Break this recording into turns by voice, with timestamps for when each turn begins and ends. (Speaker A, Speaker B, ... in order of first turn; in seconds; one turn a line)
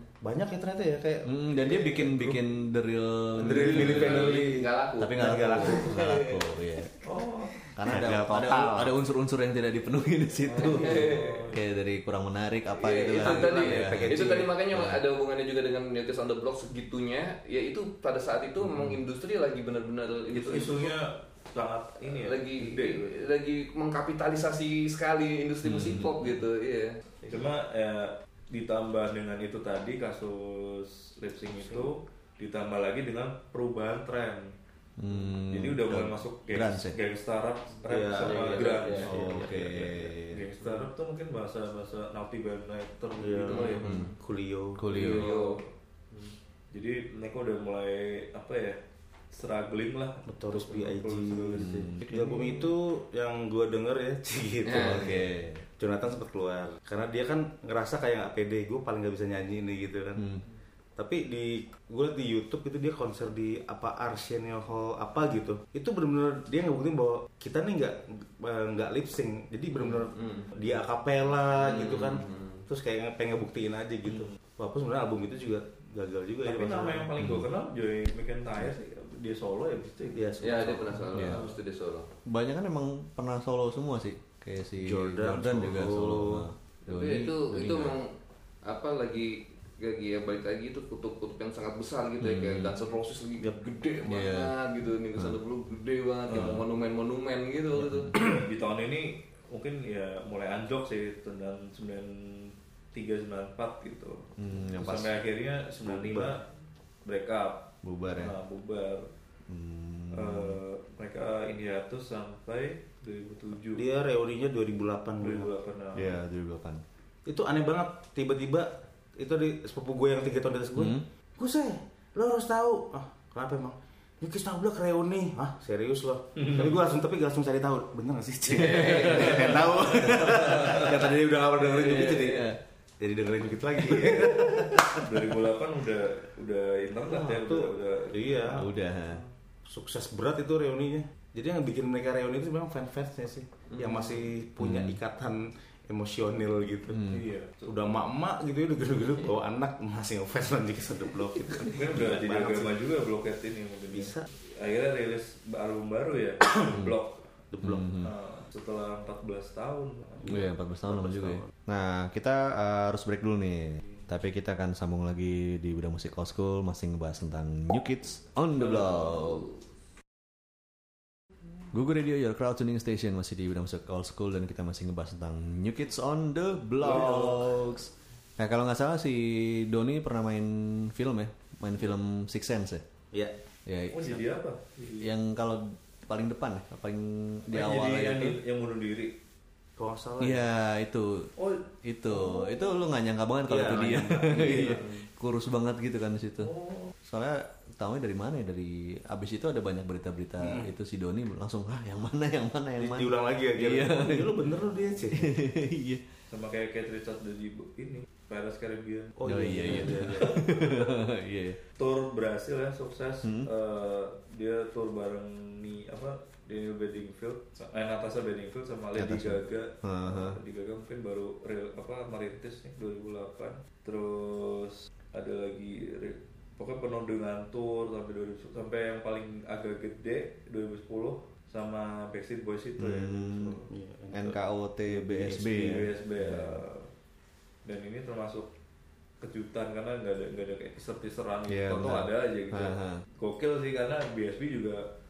Speaker A: 0.2-2.5
Speaker B: 1.2-4.4
Speaker A: 3.3-6.0
Speaker C: 3.5-6.5
Speaker B: 5.0-6.9
Speaker D: 7.0-7.6
Speaker B: 7.8-15.0
Speaker A: 7.8-9.0
Speaker D: 10.5-11.6
Speaker C: 10.6-11.5
Speaker C: 12.8-20.9
Speaker A: 13.2-14.5
Speaker B: 18.6-19.0
Speaker D: 20.3-23.1
Speaker C: 22.0-27.0
Speaker B: 25.6-26.4
Speaker D: 27.3-34.5
Speaker B: 35.0-37.0
Speaker D: 35.5-43.9
Speaker A: 37.9-40.1
Speaker C: 37.9-39.1
Speaker B: 39.1-40.5
Speaker A: 43.2-44.9
Speaker C: 43.5-44.1
Speaker B: 43.9-44.1
Speaker B: 44.8-45.3
Speaker D: 44.9-45.7
Speaker C: 45.0-45.6
Speaker D: 46.7-48.8
Speaker D: 49.3-51.9
Speaker A: 50.3-60.3
Speaker B: 51.6-52.7
Speaker C: 54.6-55.0
Speaker B: 54.7-55.6
Speaker A: 61.0-77.1
Speaker C: 70.2-70.5
Speaker C: 71.7-72.7
Speaker D: 76.5-81.5
Speaker B: 77.2-77.5
Speaker A: 80.1-81.1
Speaker C: 80.4-82.1
Speaker B: 81.1-81.4
Speaker B: 82.3-88.0
Speaker A: 84.8-86.5
Speaker C: 86.9-88.1
Speaker C: 88.7-98.2
Speaker B: 92.2-92.8
Speaker B: 94.0-94.5
Speaker B: 96.3-96.6
Speaker D: 96.3-96.6
Speaker B: 97.8-98.2
Speaker D: 98.2-106.4
Speaker B: 104.4-105.1
Speaker A: 105.8-106.4
Speaker D: 107.0-109.1
Speaker B: 107.8-108.3
Speaker B: 109.5-110.6
Speaker D: 110.1-113.8
Speaker A: 113.8-115.5
Speaker D: 115.2-116.2
Speaker B: 115.9-116.8
Speaker A: 117.3-135.1
Speaker B: 120.8-121.0
Speaker D: 134.8-138.5
Speaker A: 137.1-138.7
Speaker B: 138.5-139.2
Speaker A: 139.7-152.8
Speaker B: 144.6-145.0
Speaker D: 147.1-147.7
Speaker D: 151.6-157.2
Speaker A: 153.9-154.3
Speaker A: 157.5-157.9
Speaker B: 157.6-158.1
Speaker D: 158.0-160.3
Speaker A: 160.3-161.4
Speaker B: 160.3-169.5
Speaker D: 168.8-169.3
Speaker B: 171.7-182.8
Speaker D: 176.8-177.4
Speaker B: 183.7-184.2
Speaker D: 183.9-185.1
Speaker B: 185.0-188.4
Speaker D: 187.5-189.1
Speaker A: 189.8-190.4
Speaker B: 190.2-191.3
Speaker D: 191.4-192.8
Speaker B: 191.8-204.5
Speaker A: 193.5-194.8
Speaker D: 194.3-194.8
Speaker D: 196.4-196.9
Speaker A: 200.4-200.7
Speaker A: 202.8-205.4
Speaker B: 205.1-206.0
Speaker D: 206.3-210.9
Speaker A: 209.2-210.4
Speaker B: 209.3-211.6
Speaker D: 211.8-233.6
Speaker B: 213.2-213.5
Speaker B: 219.0-220.4
Speaker B: 232.8-235.9
Speaker A: 233.6-234.4
Speaker D: 234.9-236.9
Speaker D: 237.7-238.5
Speaker D: 239.2-244.9
Speaker B: 241.5-243.0